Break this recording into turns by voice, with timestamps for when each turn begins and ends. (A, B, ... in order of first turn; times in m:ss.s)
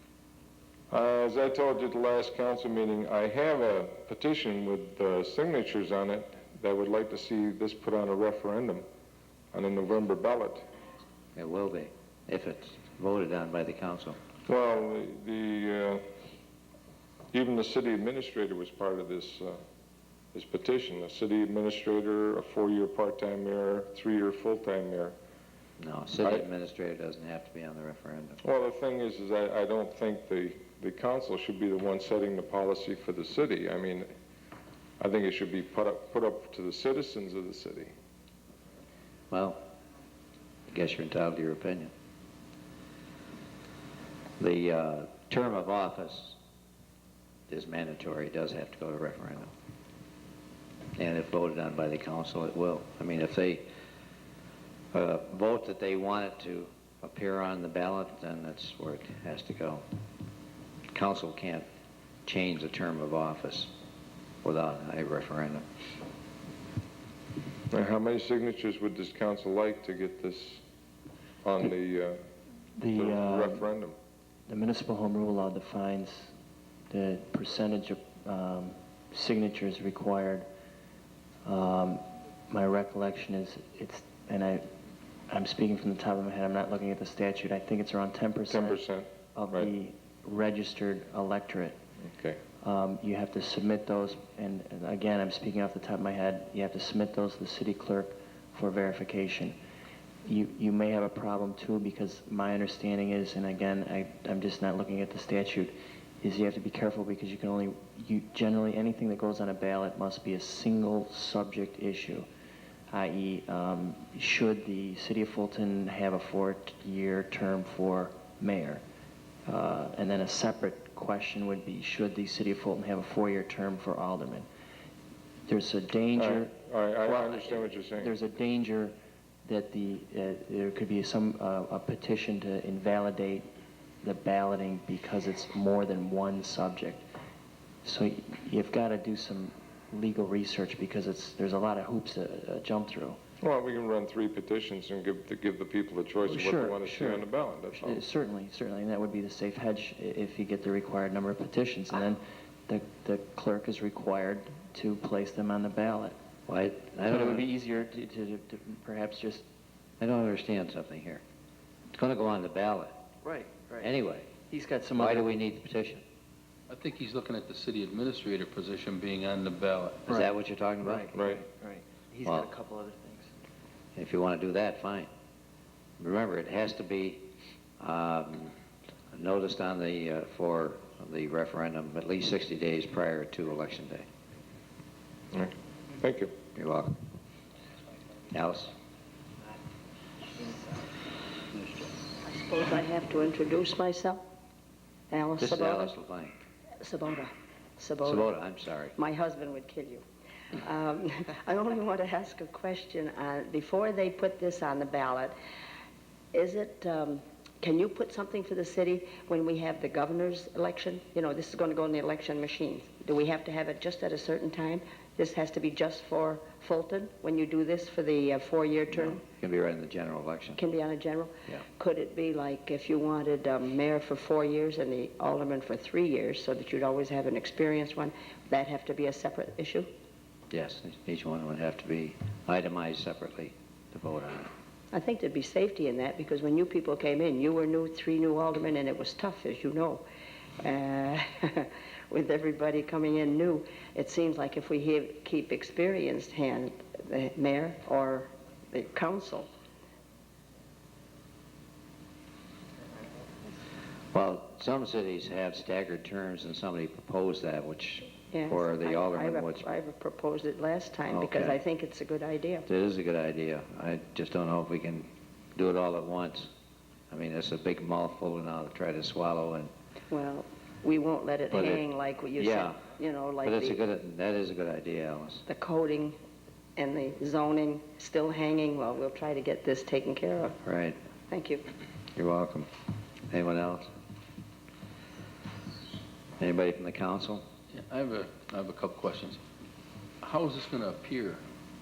0:00.9-0:08.8 A
0:09.5-0:10.6 A
0:11.4-0:14.2 B
0:14.5-0:16.0 A
0:17.3-0:19.6 A
0:20.3-0:25.2 A
0:25.8-0:28.4 B
0:26.2-0:26.5 A
0:28.4-0:34.1 A
0:35.0-0:37.9 A
0:39.3-0:39.6 B
0:40.7-0:41.9 B
0:44.4-0:46.4 B
0:47.5-0:49.5 B
0:51.0-0:53.6 B
0:54.9-0:59.8 B
1:00.9-1:01.6 B
1:02.3-1:03.7 B
1:04.4-1:05.6 B
1:07.7-1:10.6 A
1:11.4-1:12.2 A
1:12.8-1:13.7 C
1:12.9-1:14.0 A
1:14.5-1:16.3 C
1:16.9-1:20.5 C
1:21.4-1:24.6 C
1:25.3-1:28.8 C
1:28.5-1:29.7 A
1:29.3-1:31.8 C
1:32.1-1:32.4 A
1:32.6-1:39.6 C
1:40.2-1:52.3 C
1:52.9-1:58.8 C
1:59.5-2:04.5 C
2:05.5-2:13.5 C
2:06.2-2:08.1 A
2:14.0-2:17.1 C
2:17.8-2:23.2 C
2:23.4-2:28.0 A
2:26.2-2:36.2 C
2:36.5-2:37.4 B
2:37.1-2:39.4 C
2:40.0-2:41.2 B
2:42.0-2:43.0 B
2:43.2-2:43.9 C
2:43.8-2:44.3 B
2:44.5-2:45.3 C
2:45.0-2:46.0 B
2:46.7-2:50.1 D
2:50.1-2:51.1 B
2:50.1-2:53.3 C
2:51.2-2:51.4 A
2:54.0-2:55.1 B
2:56.0-2:57.3 B
2:57.8-2:58.6 B
2:59.1-3:04.1 B
3:05.3-3:06.4 A
3:06.6-3:07.0 B
3:08.3-3:08.7 B
3:12.2-3:14.2 E
3:15.1-3:16.0 E
3:15.4-3:16.4 B
3:16.8-3:18.3 E
3:18.0-3:19.0 B
3:19.0-3:20.0 E
3:20.6-3:25.3 E
3:26.3-3:39.2 E
3:39.0-3:40.6 B
3:40.6-3:49.9 E
3:50.5-3:54.5 B
3:54.9-4:00.0 E
4:00.6-4:09.5 E
4:14.1-4:19.7 B
4:18.3-4:22.7 E
4:21.1-4:21.6 B
4:22.7-4:26.5 B
4:27.1-4:29.7 B
4:30.1-4:33.8 E
4:31.5-4:31.8 B
4:32.4-4:32.8 B
4:33.4-4:35.4 B
4:35.5-4:36.2 E
4:36.8-4:40.6 E
4:40.6-4:41.0 B
4:41.3-4:41.6 E
4:42.2-4:42.7 B
4:43.3-4:43.9 B
4:46.4-4:47.4 B
4:47.7-4:49.4 D
4:50.2-4:51.4 D